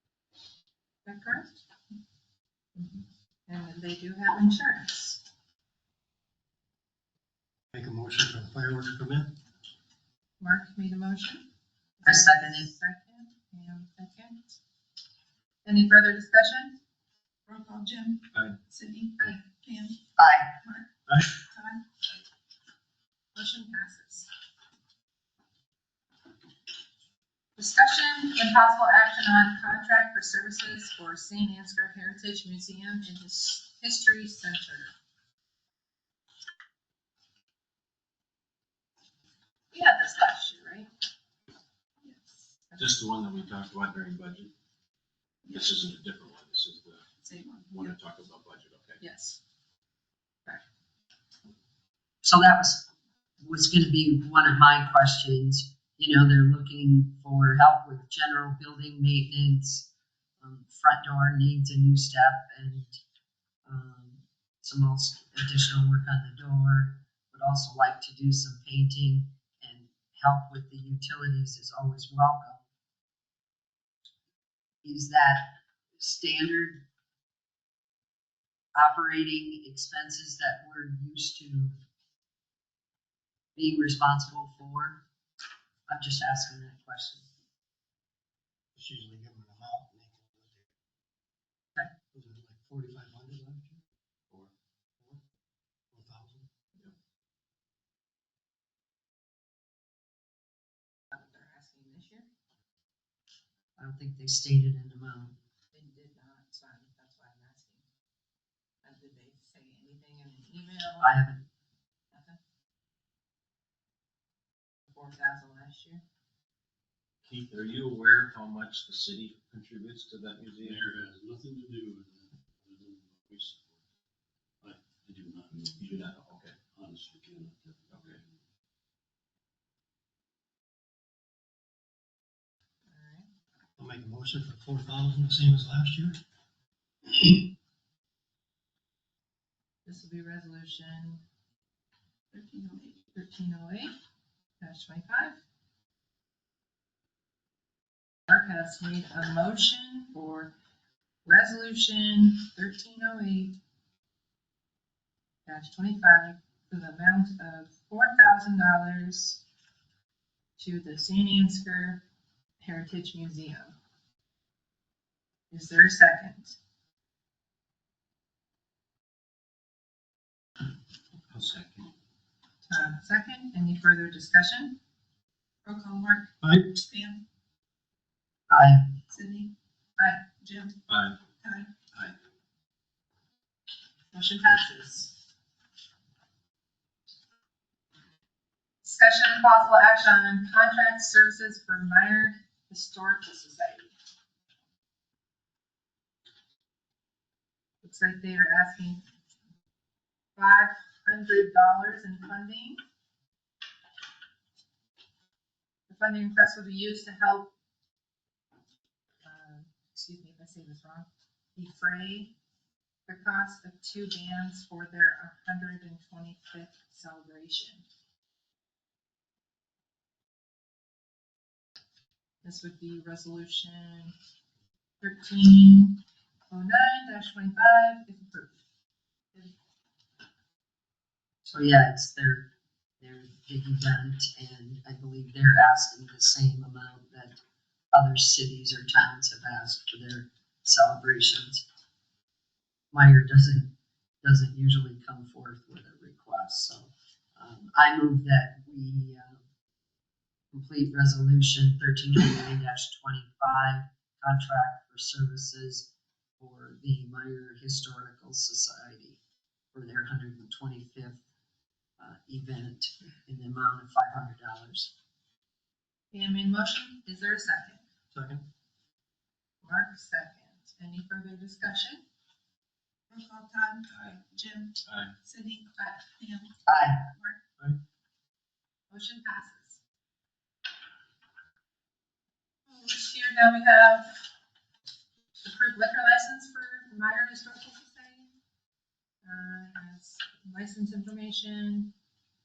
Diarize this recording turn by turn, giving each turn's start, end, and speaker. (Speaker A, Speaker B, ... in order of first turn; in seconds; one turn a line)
Speaker A: 1.1-1.6
Speaker A: 2.8-5.2
Speaker B: 7.7-9.3
Speaker A: 10.4-11.5
Speaker A: 12.0-14.6
Speaker C: 12.1-12.7
Speaker A: 15.7-16.8
Speaker D: 17.5-20.0
Speaker C: 20.2-20.5
Speaker D: 21.4-21.8
Speaker A: 23.4-24.3
Speaker A: 27.6-34.9
Speaker A: 39.7-40.9
Speaker A: 42.7-43.1
Speaker E: 42.8-44.5
Speaker D: 45.5-45.9
Speaker E: 45.5-47.0
Speaker D: 47.2-47.9
Speaker E: 47.7-49.0
Speaker A: 49.0-49.4
Speaker C: 52.2-52.9
Speaker C: 53.4-63.0
Speaker C: 63.7-72.7
Speaker C: 74.8-76.8
Speaker C: 78.8-81.7
Speaker C: 83.6-85.0
Speaker C: 85.9-87.3
Speaker B: 88.8-90.1
Speaker B: 92.1-93.8
Speaker F: 92.3-92.6
Speaker B: 95.9-96.4
Speaker A: 101.1-102.3
Speaker C: 103.8-105.4
Speaker A: 105.7-107.9
Speaker A: 108.8-111.1
Speaker C: 111.0-111.5
Speaker A: 112.1-112.4
Speaker A: 114.9-116.0
Speaker E: 117.3-120.9
Speaker F: 120.6-123.7
Speaker F: 124.6-128.2
Speaker E: 125.8-126.6
Speaker E: 128.0-128.2
Speaker A: 132.9-133.3
Speaker B: 133.8-136.2
Speaker A: 139.9-141.2
Speaker D: 142.3-143.0
Speaker A: 143.1-143.9
Speaker A: 144.6-145.4
Speaker A: 148.3-150.5
Speaker A: 151.2-153.6
Speaker A: 155.5-159.4
Speaker A: 160.6-162.0
Speaker A: 162.6-163.8
Speaker A: 165.5-166.6
Speaker E: 171.3-171.9
Speaker A: 172.7-174.8
Speaker D: 175.7-177.2
Speaker E: 176.4-176.7
Speaker C: 178.5-178.9
Speaker D: 179.1-179.5
Speaker A: 180.0-180.2
Speaker D: 180.4-181.8
Speaker E: 180.9-181.2
Speaker A: 184.1-185.1
Speaker A: 188.8-193.9
Speaker A: 197.8-199.0
Speaker A: 200.4-202.8
Speaker A: 205.9-207.5
Speaker A: 209.2-212.3
Speaker A: 213.1-217.8
Speaker A: 222.4-224.2
Speaker A: 225.0-228.6
Speaker C: 231.4-237.4
Speaker C: 237.9-241.6
Speaker C: 242.9-243.7
Speaker C: 244.2-249.4
Speaker C: 250.5-259.2
Speaker C: 259.7-261.2
Speaker C: 262.0-264.9
Speaker A: 266.1-267.8
Speaker B: 268.1-268.4
Speaker A: 269.6-272.0
Speaker D: 273.1-276.5
Speaker E: 274.9-275.1
Speaker C: 276.7-277.0
Speaker D: 277.1-277.4
Speaker A: 278.9-279.8
Speaker A: 282.7-284.2
Speaker A: 285.4-288.3
Speaker A: 289.2-291.9